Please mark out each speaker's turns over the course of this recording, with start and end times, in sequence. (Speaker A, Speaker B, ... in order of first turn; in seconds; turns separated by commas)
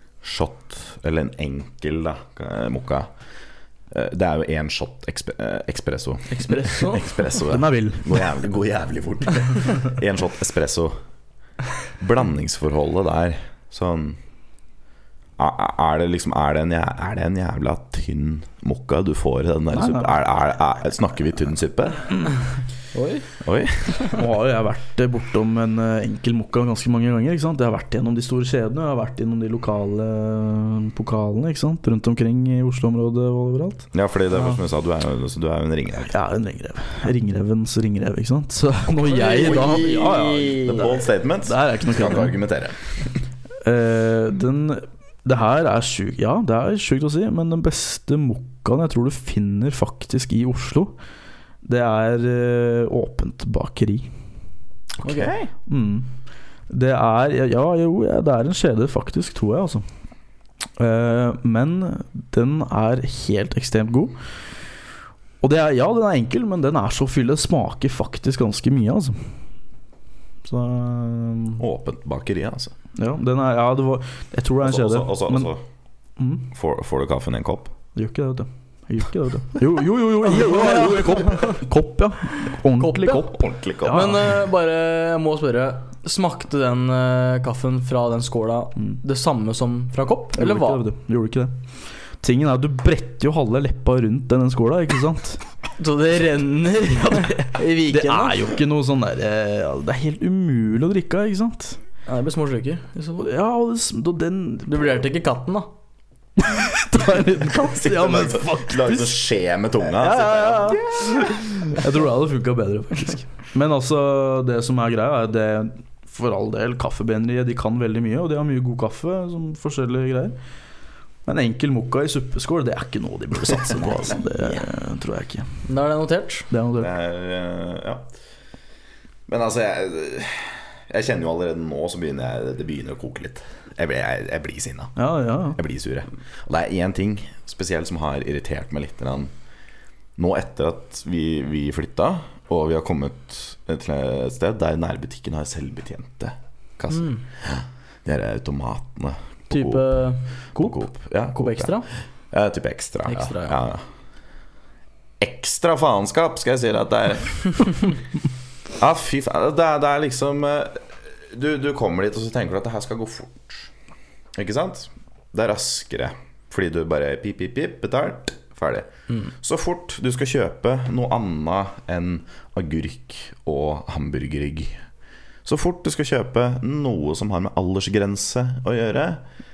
Speaker A: 0.2-3.1, Speaker A: 3.9-11.0, Speaker B: 6.3-7.2, Speaker C: 7.4-8.2, Speaker A: 12.0-14.2, Speaker A: 15.4-22.1, Speaker C: 19.7-20.1, Speaker B: 22.9-23.3, Speaker A: 23.4-24.1, Speaker C: 24.1-33.9, Speaker A: 33.9-36.1, Speaker C: 36.0-40.9, Speaker B: 39.0-41.0, Speaker A: 39.2-42.8, Speaker C: 41.4-42.4, Speaker C: 43.6-50.9, Speaker C: 51.6-54.1, Speaker A: 55.0-55.5, Speaker B: 55.0-55.3, Speaker C: 55.7-56.1, Speaker C: 56.7-59.8, Speaker C: 60.8-64.2, Speaker C: 65.4-69.3, Speaker C: 70.4-71.6, Speaker A: 71.6-72.7, Speaker C: 73.0-75.5, Speaker A: 74.6-75.6, Speaker C: 76.2-76.5, Speaker A: 76.5-77.7, Speaker C: 77.9-84.4, Speaker B: 80.3-81.5, Speaker B: 82.8-83.3, Speaker A: 83.3-84.2, Speaker B: 83.8-90.8, Speaker C: 90.3-91.7, Speaker C: 92.2-95.4, Speaker B: 95.8-98.4, Speaker C: 97.8-101.8, Speaker B: 102.1-103.3, Speaker C: 103.2-105.0, Speaker B: 104.7-105.7, Speaker C: 106.4-109.2, Speaker A: 107.7-111.3, Speaker B: 110.0-110.9, Speaker C: 110.7-120.4, Speaker C: 121.2-125.5, Speaker B: 125.6-126.5, Speaker C: 126.5-126.9, Speaker A: 126.8-128.1, Speaker A: 129.3-134.9, Speaker C: 134.9-135.6, Speaker A: 135.5-139.3, Speaker A: 140.2-149.8, Speaker B: 146.9-147.2, Speaker B: 149.5-151.8, Speaker A: 150.6-153.8, Speaker B: 153.1-153.6, Speaker A: 155.2-157.9, Speaker A: 158.8-163.7, Speaker A: 164.3-174.8, Speaker A: 175.4-179.2